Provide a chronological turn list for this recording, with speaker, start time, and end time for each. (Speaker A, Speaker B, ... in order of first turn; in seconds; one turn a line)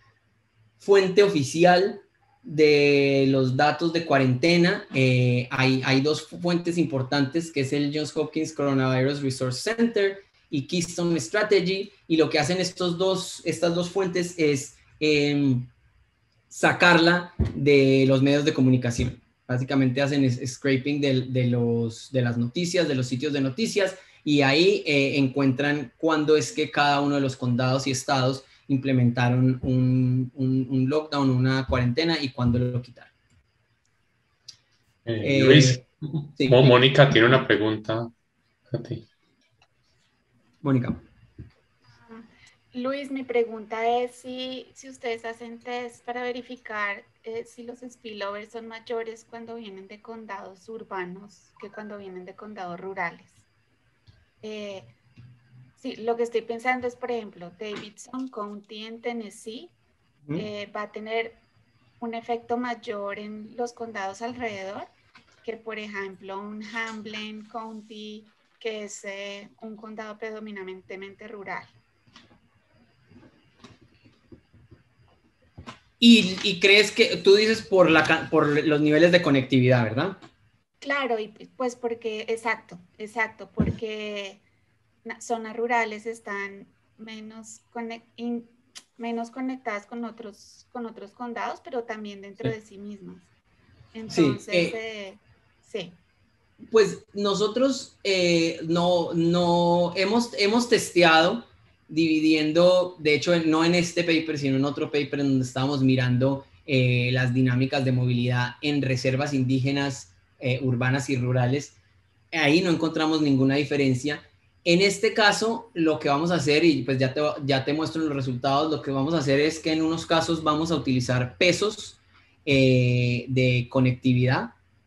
Speaker A: 0.8-15.7
Speaker A: 16.5-33.1
Speaker B: 35.0-38.1
Speaker A: 35.2-35.8
Speaker A: 36.4-36.7
Speaker B: 38.7-39.0
Speaker A: 40.6-41.0
Speaker C: 42.0-53.4
Speaker C: 54.4-54.9
Speaker C: 55.8-59.7
Speaker C: 60.4-61.4
Speaker C: 62.0-64.9
Speaker C: 65.4-71.7
Speaker A: 76.0-80.2
Speaker C: 80.8-84.4
Speaker C: 85.0-93.2
Speaker C: 93.9-95.9
Speaker A: 94.1-94.8
Speaker A: 96.7-111.7
Speaker A: 112.3-124.5